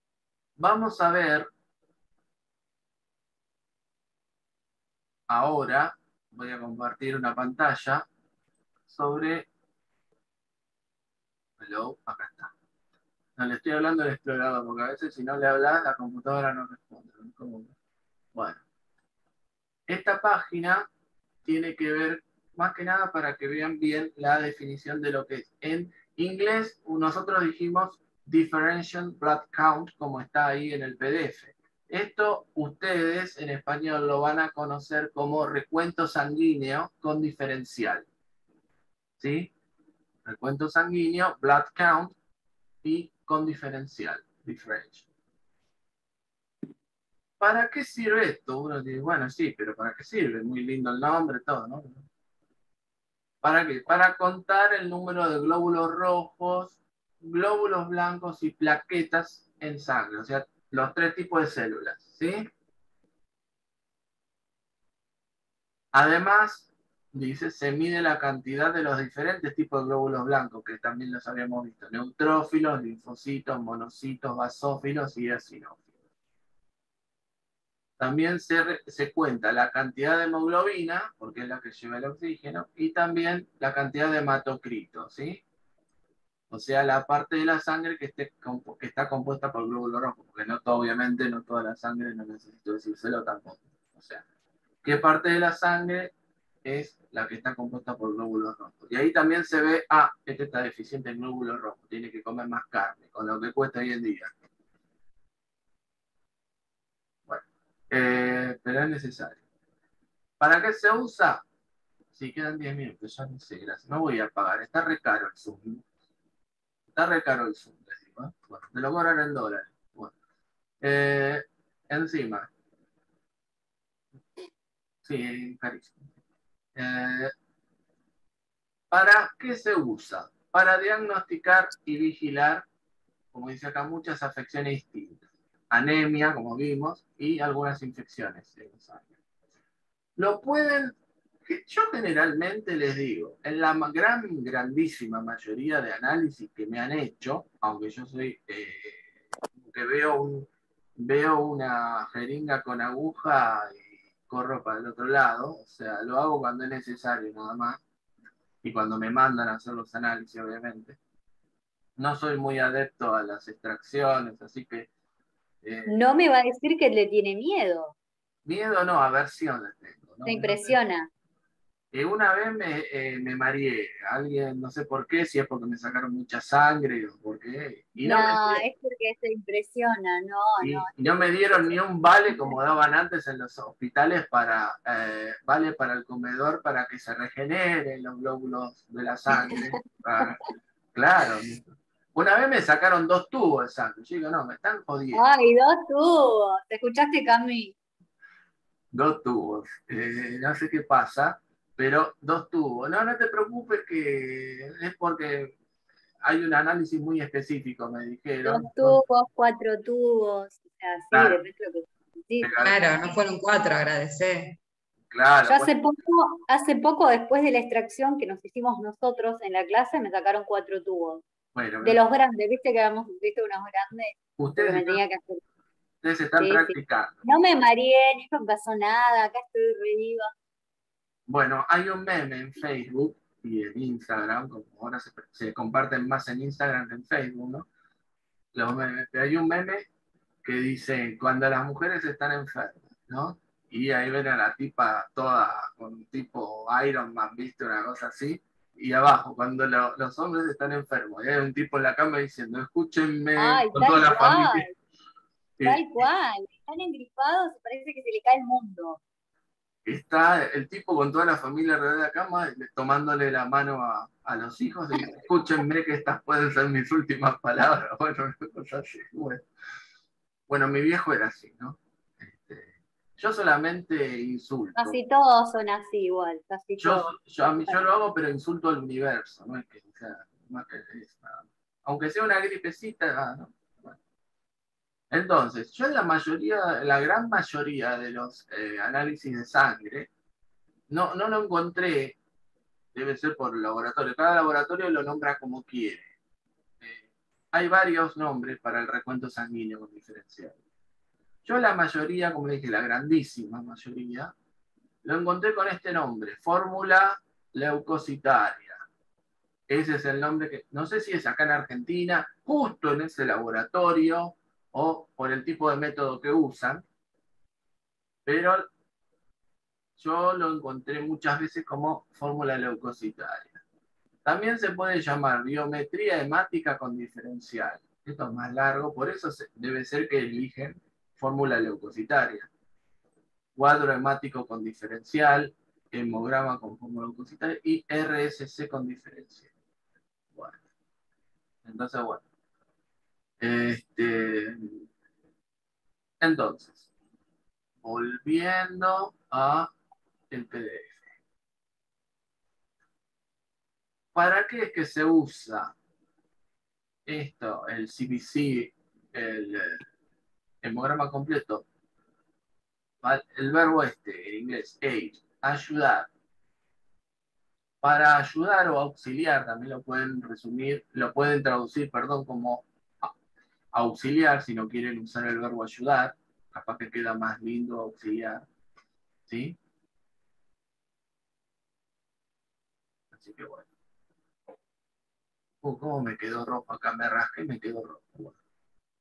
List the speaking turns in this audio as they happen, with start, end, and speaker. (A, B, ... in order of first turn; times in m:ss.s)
0:00.6-0:01.5 A
0:05.3-0:08.0 A
0:08.9-0:09.5 A
0:11.6-0:12.5 A
0:13.4-0:17.7 A
0:18.3-0:18.6 A
0:19.9-0:20.8 A
0:21.4-0:38.0 A
0:39.2-0:39.5 A
0:40.2-0:42.1 A
0:42.8-0:45.1 A
0:47.4-0:52.1 A
0:53.4-1:02.5 A
1:05.9-1:15.8 A
1:18.0-1:25.4 A
1:26.5-1:34.2 A
1:34.8-1:36.1 A
1:36.6-1:44.3 A
1:47.3-1:49.4 A
1:50.4-1:51.4 A
1:52.1-1:55.8 A
1:56.9-2:00.1 A
2:00.8-2:02.5 A
2:05.0-2:06.0 A
2:06.8-2:07.3 A
2:08.9-2:12.6 A
2:13.3-2:19.0 A
2:20.2-2:37.8 A
2:38.6-2:41.0 A
2:42.0-2:44.9 A
2:45.6-2:46.0 A
2:45.9-2:47.9 B
2:48.4-2:50.7 A
2:50.2-2:51.1 B
2:51.9-2:58.6 A
2:58.0-3:01.8 B
3:00.6-3:10.4 A
3:10.9-3:15.2 A
3:15.1-3:17.7 B
3:18.9-3:25.5 A
3:26.2-3:29.0 A
3:28.4-3:32.5 B
3:31.1-3:31.4 A
3:32.4-3:32.9 A
3:32.6-3:34.6 C
3:35.1-3:35.7 A
3:35.4-3:41.2 B
3:41.5-3:42.0 A
3:41.8-3:45.4 B
3:44.4-3:45.0 A
3:46.0-3:47.2 A
3:46.4-3:50.3 B
3:51.3-3:57.7 A
3:58.5-3:59.9 A
4:00.4-4:14.7 A
4:13.4-4:14.7 B
4:15.6-4:16.0 A
4:15.6-4:19.0 B
4:19.8-4:29.4 A
4:30.5-4:35.0 A
4:34.8-4:37.8 B
4:36.8-4:44.0 A
4:45.1-4:50.1 A
4:50.9-4:52.2 A
4:52.9-4:56.1 A
4:56.8-5:00.6 A
5:01.4-5:04.3 A
5:05.0-5:08.8 A
5:09.7-5:16.8 A
5:18.2-5:18.7 A
5:20.0-5:23.6 A
5:24.2-5:32.5 A
5:33.6-5:39.5 A
5:40.3-5:40.6 A
5:41.6-5:42.2 A
5:43.4-5:44.8 A
5:46.2-5:46.9 A
5:47.8-5:49.7 A
5:50.3-5:51.0 A
5:54.1-5:55.7 A
5:57.1-5:59.8 A
6:00.6-6:01.6 A
6:03.0-6:06.1 A
6:07.8-6:13.1 A
6:13.7-6:18.4 A
6:19.2-6:19.6 A
6:23.1-6:23.7 A
6:25.6-6:28.3 A